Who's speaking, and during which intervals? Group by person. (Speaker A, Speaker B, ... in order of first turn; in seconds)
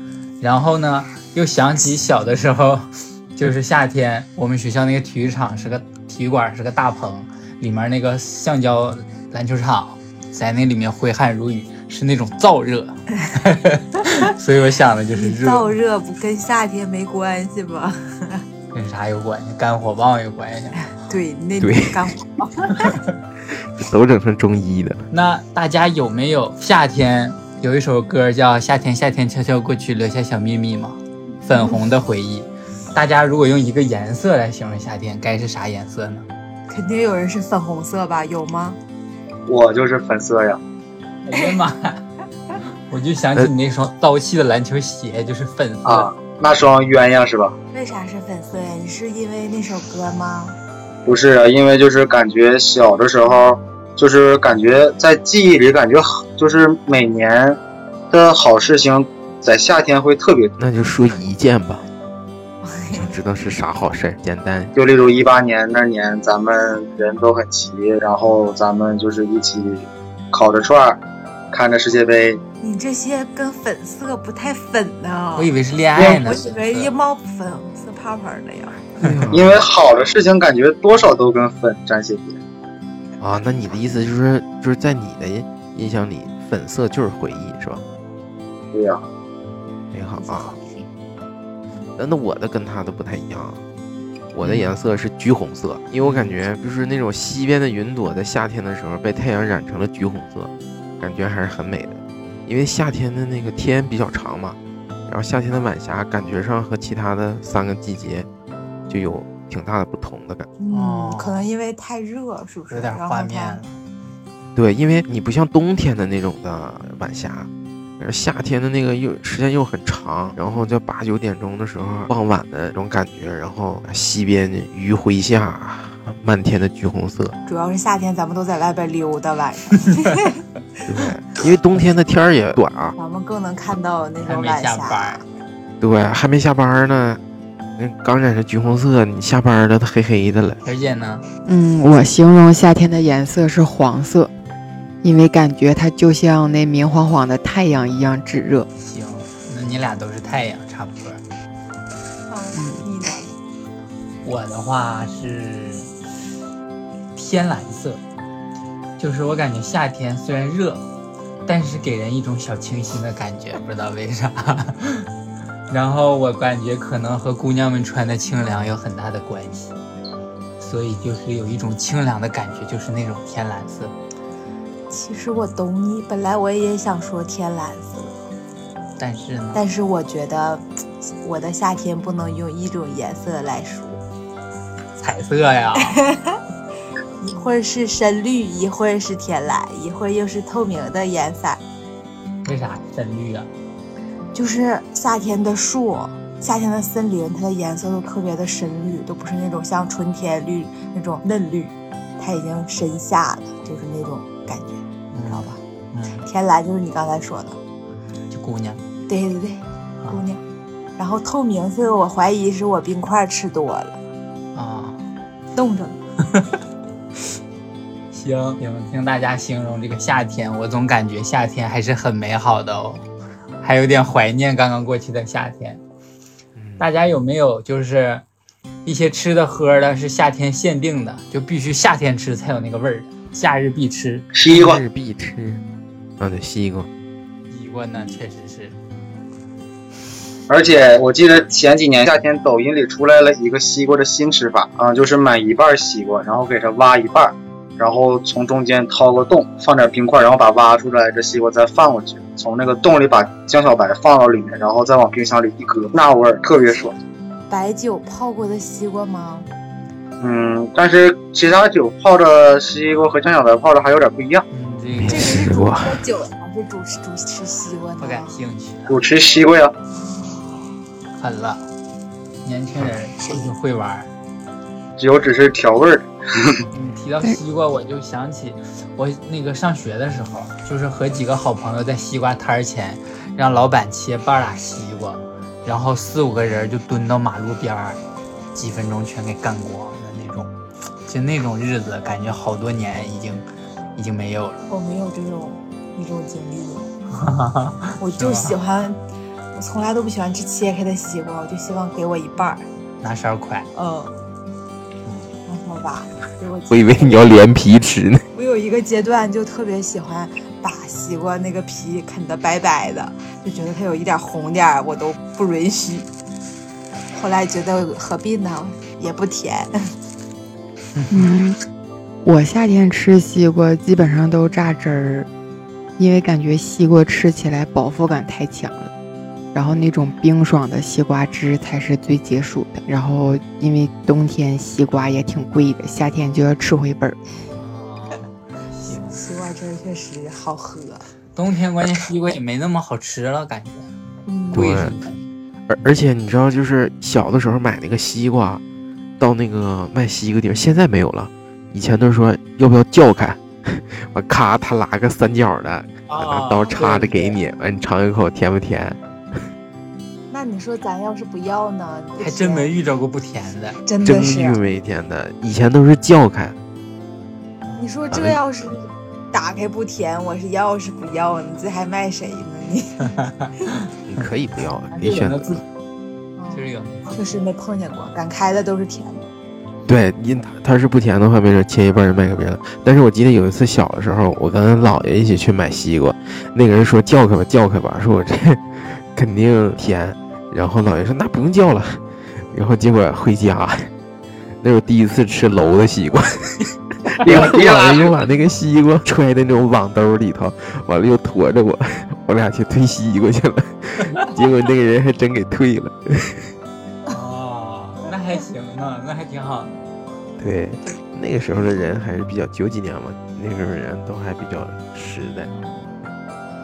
Speaker A: 0.4-15.7, 18.7-20.8, 25.1-36.3, 41.2-42.0, 42.9-46.1, 75.4-76.9, 94.4-94.7, 96.0-96.3, 110.7-111.5, 112.7-113.8, 134.2-135.2, 140.6-141.2, 148.8-151.2, 154.2-155.9, 157.2-158.0, 159.0-160.8, 161.5-165.1, 165.7-169.7, 170.6-173.9, 179.0-179.6, 185.0-186.0, 192.4-193.5, 205.1-206.3, 208.3-208.8, 214.6-215.0, 218.1-223.0, 223.6-225.8, 226.8-228.2, 228.8-234.3, 237.5-238.8, 264.5-265.4, 268.0-269.0, 271.2-271.6, 272.4-274.1, 276.7-288.0, 288.6-290.5, 291.1-294.6, 297.1-298.6, 303.0-303.7, 320.9-321.3, 337.5-339.2, 341.4-343.9, 344.5-345.2, 356.1-356.8, 362.2-363.8, 374.9-375.6, 376.5-377.4, 407.1-409.8, 415.5-415.7
Speaker B: 15.1-18.4, 21.0-22.9, 36.7-38.8, 47.7-50.6, 62.6-63.1, 72.6-78.9, 90.2-90.9, 110.6-113.6, 127.5-130.4, 133.0-135.2, 152.3-153.3, 174.9-178.2, 179.5-180.6, 181.2-184.0, 185.9-186.4, 187.2-191.6, 194.3-205.6, 206.3-207.6, 209.1-210.4, 211.0-214.0, 215.6-216.0, 257.5-259.5, 265.1-268.4, 269.9-270.8, 294.7-296.9, 298.0-299.0, 299.6-302.7, 303.8-304.2, 305.5-307.3, 308.3-316.1, 317.1-319.9, 338.9-341.1, 344.3-344.7, 356.6-357.4, 360.3-362.8, 363.9-364.6, 367.8-373.1, 376.4-379.2
Speaker C: 21.6-22.0, 23.5-25.1, 60.6-61.9, 62.9-64.7, 79.0-79.6, 83.2-87.8, 89.9-90.5, 92.0-93.6, 94.3-108.3, 108.9-110.5, 114.5-127.4, 130.9-133.0, 135.8-137.2, 137.8-140.6, 226.6-226.9, 234.5-235.6, 236.2-236.9, 264.9-266.0, 306.7-308.2, 344.5-344.9, 345.7-348.6, 349.2-359.5, 364.0-366.6, 368.1-368.4, 374.1-375.6, 379.9-393.9, 394.6-396.2, 397.2-406.5, 410.4-415.5
Speaker D: 39.5-40.6, 45.9-47.6, 51.1-57.6, 58.1-60.5, 64.8-71.0, 71.5-72.4, 79.3-82.4, 88.7-89.0, 234.3-234.8, 240.5-257.0, 260.2-264.5, 268.9-269.7, 275.0-276.6, 397.2-398.1
Speaker E: 141.4-144.3, 145.0-148.7, 321.1-321.6, 322.2-325.3, 326.0-328.9, 329.5-337.2